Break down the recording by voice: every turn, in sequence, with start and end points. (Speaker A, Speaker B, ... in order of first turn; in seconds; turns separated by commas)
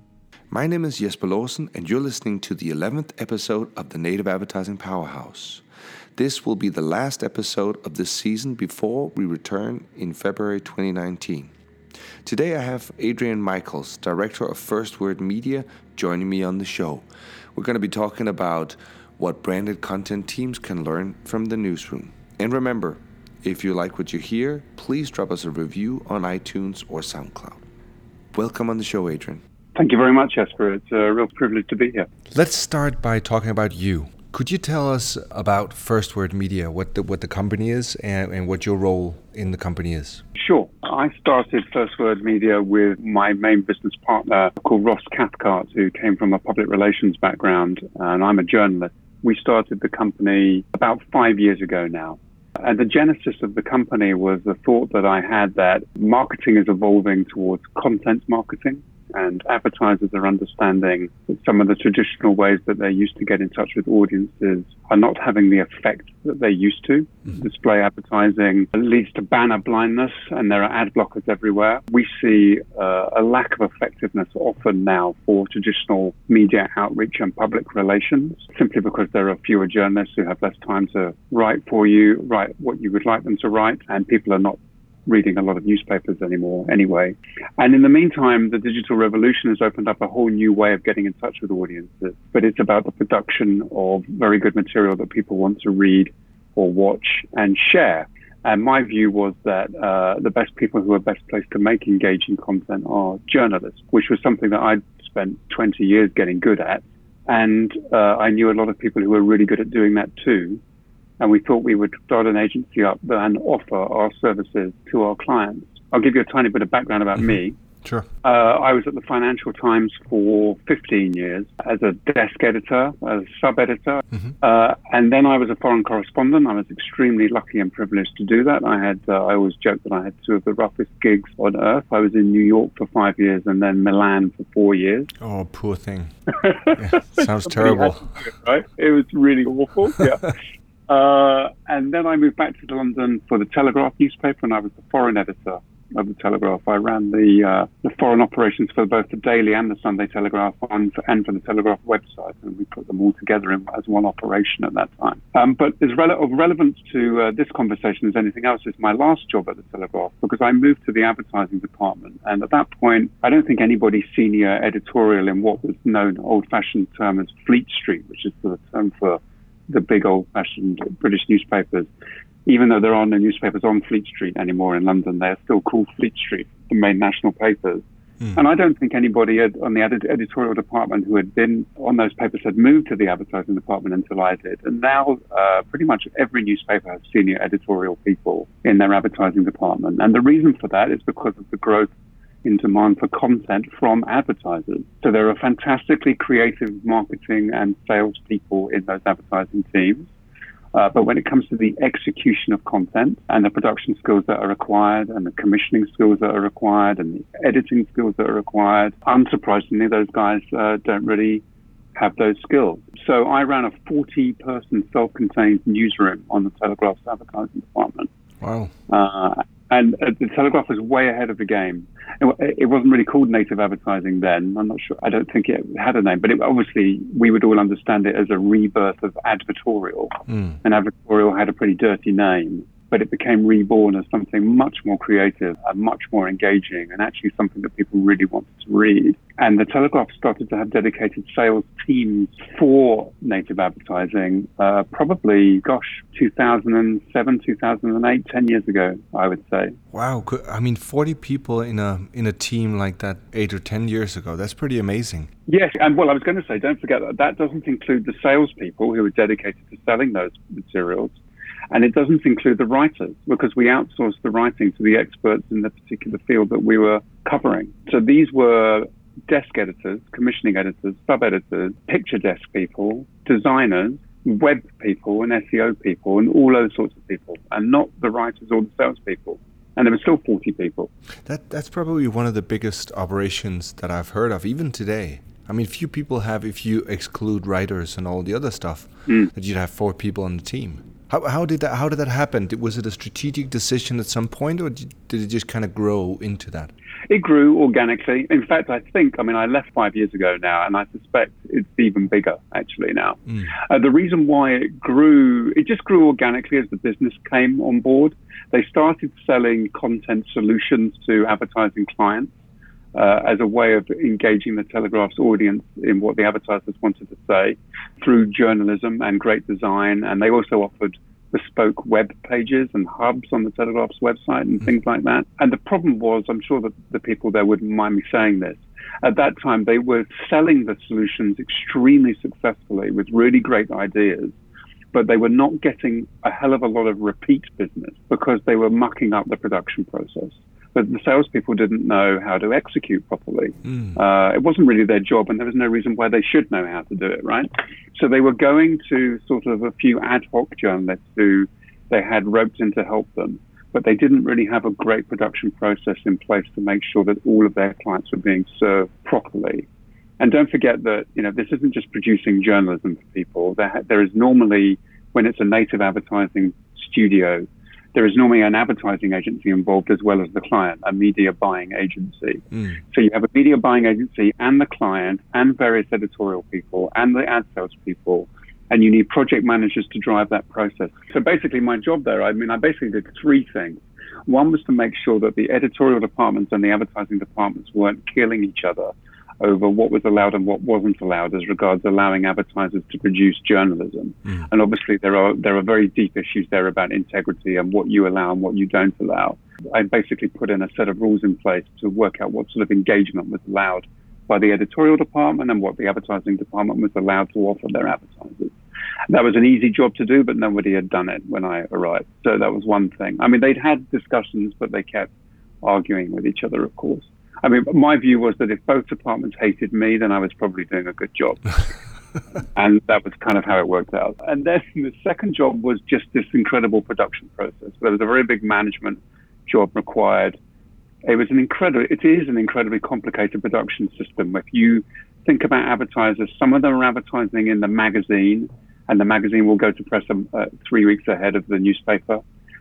Speaker A: 0.5-5.6, Speaker A: 6.2-11.5, Speaker A: 12.2-27.6, Speaker A: 28.3-29.4, Speaker B: 29.8-32.1, Speaker A: 32.3-40.2, Speaker B: 40.4-110.6, Speaker B: 111.2-117.6, Speaker B: 118.2-135.1, Speaker A: 135.2-136.1, Speaker B: 136.4-140.4, Speaker A: 136.8-138.1, Speaker B: 140.9-171.9, Speaker B: 172.5-191.9, Speaker B: 192.4-200.1, Speaker B: 200.7-211.4, Speaker B: 212.0-218.1, Speaker A: 218.4-218.7, Speaker B: 218.9-249.8, Speaker A: 230.3-230.6, Speaker A: 249.9-255.3, Speaker B: 255.5-261.2, Speaker B: 261.7-280.9, Speaker A: 281.2-296.7, Speaker B: 297.1-312.3, Speaker B: 312.9-334.4, Speaker B: 334.9-359.7, Speaker A: 343.6-344.0, Speaker B: 360.2-408.6, Speaker B: 409.1-415.1, Speaker B: 415.6-421.6, Speaker B: 422.6-430.4, Speaker B: 431.1-442.2